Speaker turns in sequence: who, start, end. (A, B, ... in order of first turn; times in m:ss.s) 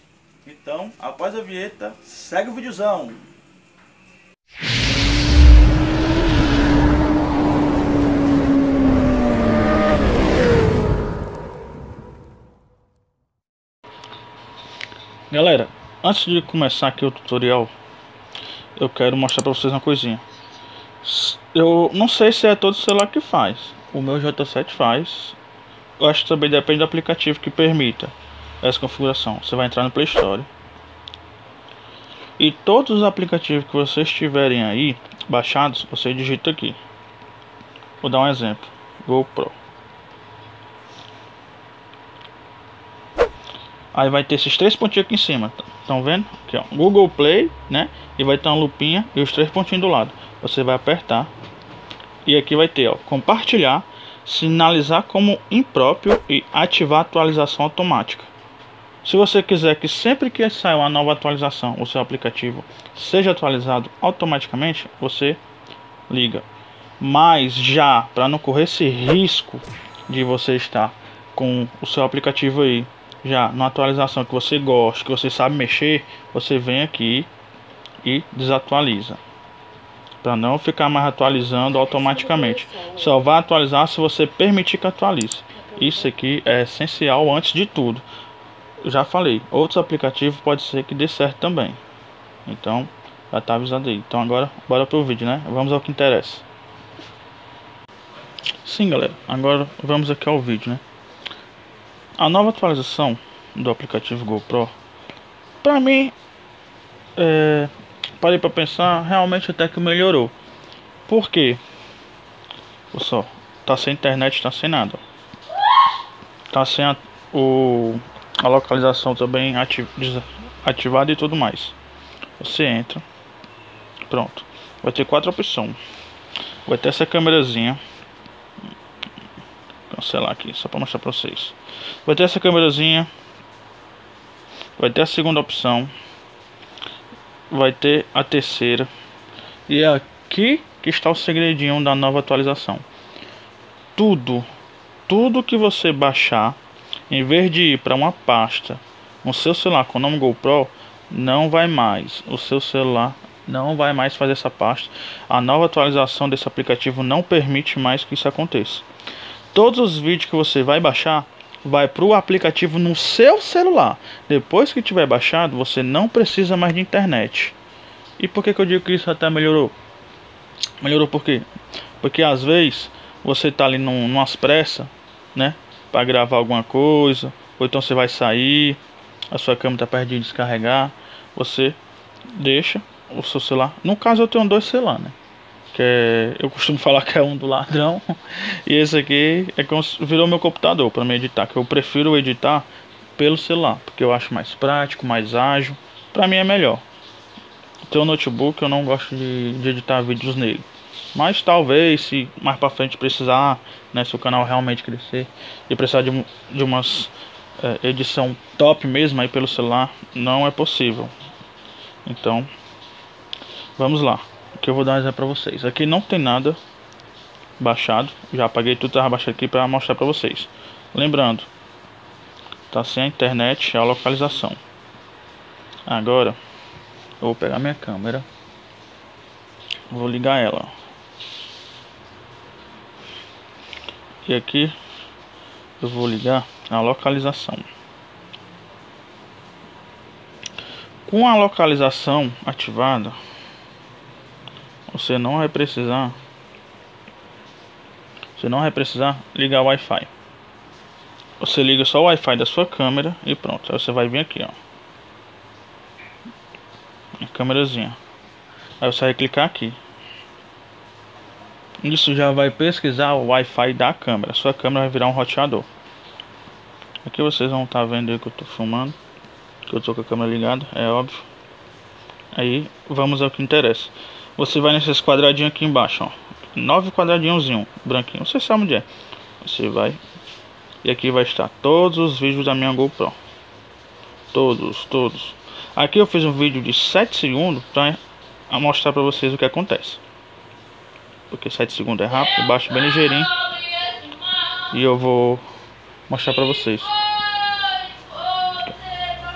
0:00.4-0:03.3 A
0:15.3-0:17.7 A
0:18.8-0:20.2 A
0:21.0-0:25.4 A
0:26.0-0:30.5 A
0:32.4-0:36.8 A
0:38.0-0:39.6 A
0:43.9-0:51.3 A
0:52.2-0:58.3 A
0:59.0-1:05.4 A
1:06.1-1:06.5 A
1:07.0-1:17.3 A
1:18.0-1:19.2 A
1:20.2-1:28.0 A
1:28.8-1:31.8 A
1:32.5-1:36.4 A
1:38.6-1:40.8 A
1:42.2-1:44.7 A
1:45.6-1:46.2 A
1:47.2-1:50.3 A
1:51.1-1:51.6 A
1:52.9-1:55.0 A
1:56.5-2:01.8 A
2:02.4-2:03.0 A
2:04.1-2:05.8 A
2:06.7-2:07.8 A
2:09.9-2:13.1 A
2:14.8-2:15.9 A
2:17.5-2:18.9 A
2:19.7-2:22.8 A
2:24.0-2:24.5 A
2:25.1-2:26.6 A
2:27.1-2:38.9 A
2:39.5-2:47.6 A
2:48.2-2:49.8 A
2:50.8-2:51.5 A
2:52.0-2:58.8 A
2:59.3-3:01.8 A
3:02.4-3:05.2 A
3:05.7-3:16.8 A
3:17.9-3:31.1 A
3:32.0-3:32.5 A
3:33.8-3:36.6 A
3:37.6-3:41.5 A
3:42.7-3:44.6 A
3:45.9-3:46.4 A
3:47.2-3:48.3 A
3:49.9-3:50.7 A
3:54.2-3:54.8 A
3:55.8-3:57.7 A
4:01.0-4:03.2 A
4:04.9-4:06.2 A
4:08.4-4:10.1 A
4:11.4-4:14.6 A
4:17.2-4:18.0 A
4:18.8-4:19.8 A
4:21.8-4:25.7 A
4:27.0-4:29.0 A
4:29.7-4:31.2 A
4:32.4-4:38.9 A
4:39.4-4:40.0 A
4:40.8-4:43.2 A
4:44.3-4:48.0 A
4:48.5-4:50.0 A
4:51.3-4:53.4 A
4:54.7-4:55.5 A
4:56.1-4:57.0 A